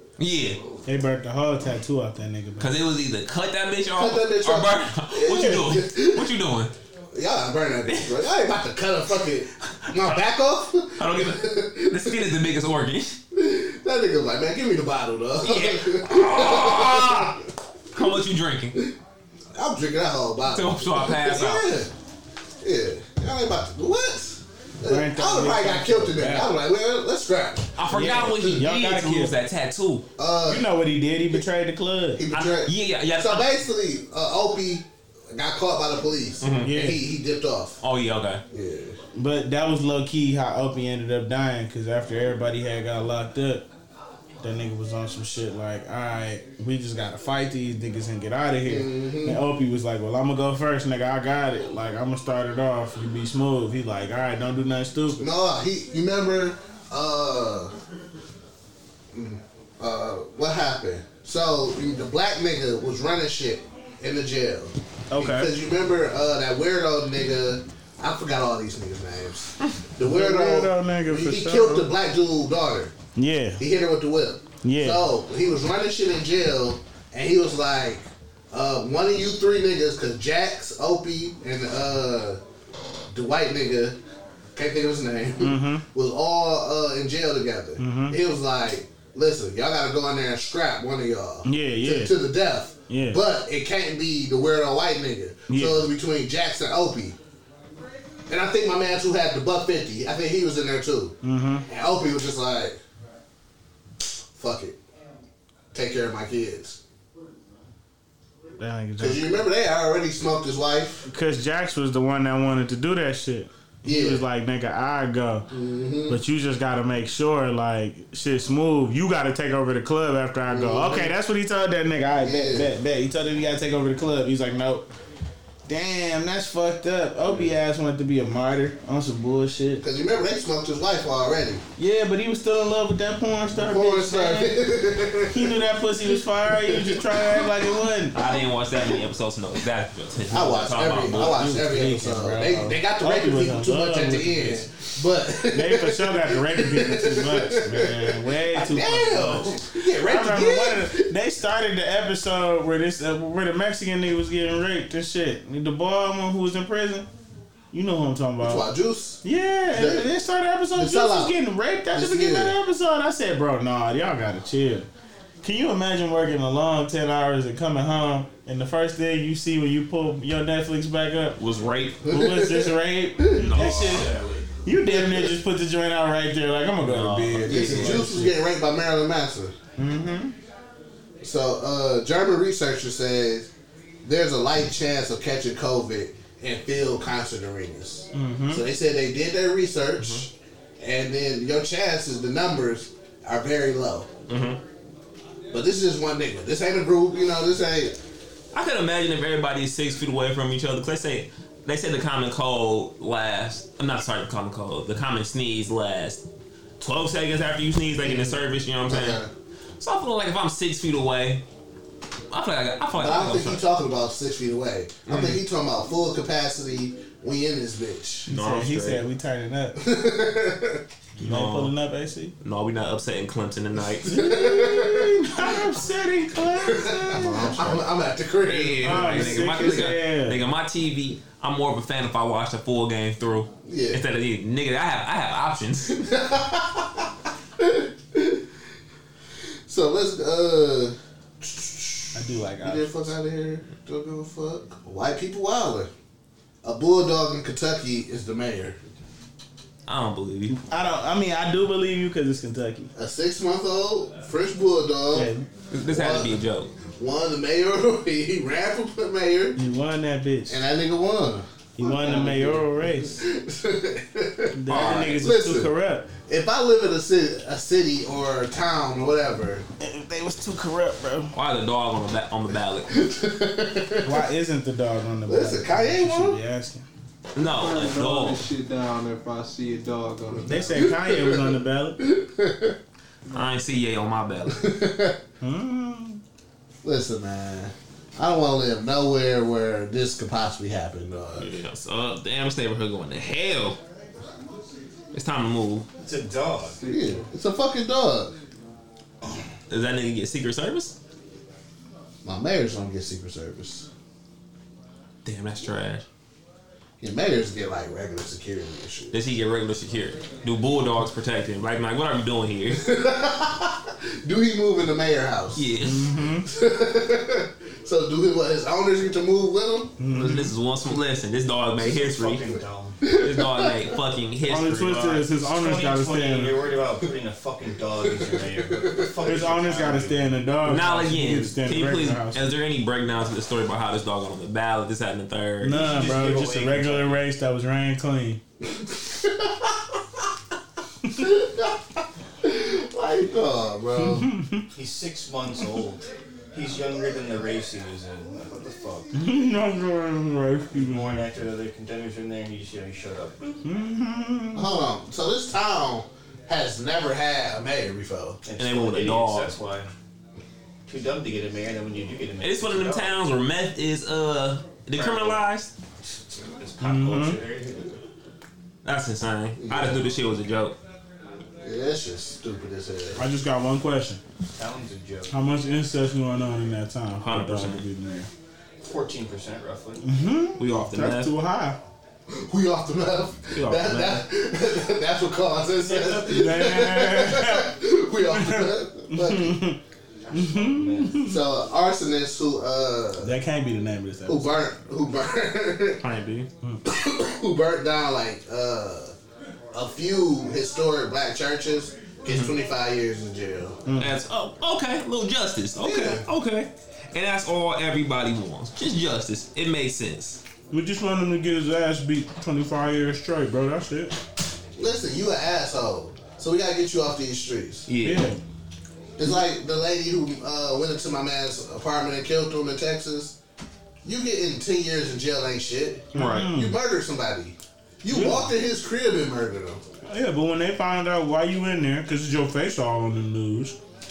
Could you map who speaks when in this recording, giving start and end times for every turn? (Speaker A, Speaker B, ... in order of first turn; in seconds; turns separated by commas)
Speaker A: 0.2-0.6, Speaker B: 0.6-0.8, Speaker C: 0.9-2.7, Speaker A: 2.6-6.7, Speaker D: 3.9-6.3, Speaker D: 7.1-12.2, Speaker A: 9.8-10.2, Speaker A: 11.0-13.2, Speaker D: 13.3-17.4, Speaker A: 15.4-17.4, Speaker A: 17.9-18.8, Speaker D: 19.6-21.9, Speaker A: 20.5-21.7, Speaker D: 22.6-28.6, Speaker C: 24.9-26.5, Speaker A: 27.8-30.1, Speaker C: 27.9-29.4, Speaker D: 30.2-30.7, Speaker C: 30.5-32.2, Speaker D: 32.2-37.8, Speaker A: 32.3-33.5, Speaker A: 36.4-36.7, Speaker C: 36.6-37.0, Speaker A: 37.8-38.4, Speaker D: 38.5-39.0, Speaker C: 39.1-43.7, Speaker C: 44.4-55.2, Speaker D: 48.6-49.4, Speaker D: 55.1-57.7, Speaker D: 59.1-73.0, Speaker C: 65.1-65.5, Speaker C: 70.0-71.9, Speaker C: 73.2-73.6, Speaker D: 73.6-82.4, Speaker C: 74.6-75.0, Speaker D: 83.1-84.0, Speaker D: 84.5-97.2, Speaker C: 85.4-85.8, Speaker C: 87.8-88.2, Speaker C: 91.5-92.2, Speaker C: 92.9-93.2, Speaker C: 95.5-95.9, Speaker D: 98.3-101.2, Speaker C: 101.2-101.7, Speaker D: 101.7-102.8, Speaker D: 104.3-104.8, Speaker D: 105.7-106.8, Speaker C: 108.6-109.5, Speaker D: 109.0-111.1, Speaker C: 111.1-115.5, Speaker D: 113.8-114.2, Speaker D: 115.5-116.2, Speaker C: 116.1-124.9, Speaker D: 120.5-121.1, Speaker D: 122.2-122.7, Speaker C: 125.7-129.8, Speaker D: 127.3-127.5, Speaker D: 129.8-131.6, Speaker C: 131.8-134.6, Speaker D: 133.5-135.6, Speaker C: 135.3-138.2, Speaker D: 136.5-137.5, Speaker A: 138.1-141.4, Speaker D: 140.3-151.1, Speaker C: 141.1-144.7, Speaker C: 145.5-157.1, Speaker C: 157.7-158.7, Speaker D: 158.4-160.1, Speaker C: 159.2-164.9, Speaker D: 160.8-161.4, Speaker D: 161.9-162.6, Speaker C: 165.4-171.4, Speaker A: 171.4-172.0, Speaker D: 172.0-173.6, Speaker C: 172.1-174.1, Speaker A: 173.3-174.2, Speaker B: 173.7-174.5, Speaker C: 174.6-178.3, Speaker D: 174.9-175.4, Speaker A: 176.8-178.2, Speaker D: 177.4-179.5, Speaker C: 179.8-180.3, Speaker D: 181.2-183.5, Speaker D: 184.0-194.1, Speaker C: 188.1-188.7, Speaker A: 190.0-190.3, Speaker A: 194.3-194.6, Speaker D: 195.5-198.0, Speaker A: 198.5-206.2, Speaker A: 206.8-209.2, Speaker D: 208.0-209.3, Speaker A: 209.8-211.4, Speaker A: 212.3-213.6, Speaker D: 213.0-218.3, Speaker A: 215.1-215.4, Speaker C: 218.3-219.8, Speaker A: 218.3-219.0, Speaker D: 219.8-220.8, Speaker C: 221.2-222.3, Speaker A: 221.2-221.7, Speaker A: 222.4-224.1, Speaker D: 224.0-225.6, Speaker C: 224.1-227.6, Speaker D: 226.5-229.9, Speaker B: 227.4-227.7, Speaker A: 228.5-236.0, Speaker C: 228.8-230.4, Speaker D: 233.7-234.0, Speaker D: 235.9-237.1, Speaker D: 237.6-238.4, Speaker D: 239.7-245.9, Speaker C: 242.2-243.1, Speaker D: 246.6-248.8, Speaker A: 249.9-250.6, Speaker C: 250.5-252.9, Speaker D: 252.9-255.3, Speaker C: 255.1-255.5, Speaker A: 255.7-256.7, Speaker D: 255.9-256.4, Speaker D: 256.9-259.6, Speaker C: 259.6-260.6, Speaker D: 260.5-269.6, Speaker C: 261.8-263.2, Speaker C: 264.5-266.1, Speaker A: 264.7-265.2, Speaker C: 269.8-271.4, Speaker A: 271.3-273.0, Speaker D: 272.9-274.2, Speaker C: 274.0-276.9, Speaker D: 275.3-276.4, Speaker A: 277.4-278.4, Speaker E: 277.4-280.9, Speaker D: 280.3-282.8, Speaker C: 280.5-282.0, Speaker A: 283.3-284.6, Speaker D: 284.5-285.2, Speaker C: 285.4-286.2, Speaker D: 286.8-291.5, Speaker A: 291.4-293.8, Speaker A: 295.1-295.9, Speaker B: 296.0-296.8, Speaker E: 296.8-297.3, Speaker D: 296.9-298.4, Speaker A: 299.7-301.0, Speaker D: 302.2-303.9, Speaker A: 305.2-306.1, Speaker D: 307.0-309.2, Speaker A: 309.1-312.9, Speaker D: 312.7-315.7, Speaker A: 315.6-316.1, Speaker C: 315.8-316.5, Speaker D: 316.5-319.9, Speaker C: 320.0-320.5, Speaker A: 320.1-322.5, Speaker B: 321.8-323.0, Speaker D: 323.1-323.7, Speaker A: 323.1-325.3, Speaker C: 324.5-326.6, Speaker B: 325.4-330.3, Speaker D: 328.0-329.3, Speaker C: 329.3-332.4, Speaker A: 330.6-335.8, Speaker C: 335.6-338.4, Speaker B: 335.8-337.2, Speaker D: 338.7-339.9, Speaker D: 341.1-341.8, Speaker D: 342.4-344.3, Speaker C: 344.0-344.7, Speaker B: 344.7-349.1, Speaker C: 349.1-351.2, Speaker B: 350.7-353.4, Speaker C: 353.6-354.7, Speaker D: 354.6-358.4, Speaker B: 358.4-359.9, Speaker A: 358.6-359.6, Speaker B: 360.9-363.2, Speaker A: 362.4-365.7, Speaker B: 364.9-365.4, Speaker B: 366.3-367.9, Speaker C: 366.8-367.4, Speaker A: 368.8-370.8, Speaker D: 369.6-370.0, Speaker D: 371.6-373.2, Speaker C: 373.2-374.2, Speaker B: 374.6-375.3, Speaker C: 375.3-378.3, Speaker A: 377.2-377.8, Speaker B: 378.8-380.1, Speaker C: 380.0-381.8, Speaker A: 380.6-381.3, Speaker D: 382.3-389.7, Speaker A: 383.5-384.2, Speaker C: 385.8-387.8, Speaker C: 388.3-389.8, Speaker B: 390.2-391.3, Speaker C: 390.3-391.4, Speaker D: 391.2-393.3, Speaker C: 393.2-394.6, Speaker D: 394.3-396.0, Speaker A: 396.0-396.5, Speaker D: 396.9-399.2, Speaker D: 399.7-403.8, Speaker A: 402.3-402.6, Speaker C: 403.9-404.1, Speaker A: 404.0-410.4, Speaker D: 405.8-406.2, Speaker C: 410.7-414.2, Speaker D: 414.8-417.9, Speaker A: 417.9-418.3, Speaker C: 418.0-418.4, Speaker D: 419.2-423.4, Speaker D: 424.0-429.8, Speaker A: 426.1-426.5, Speaker C: 426.1-426.8, Speaker C: 428.1-428.5, Speaker C: 430.1-433.8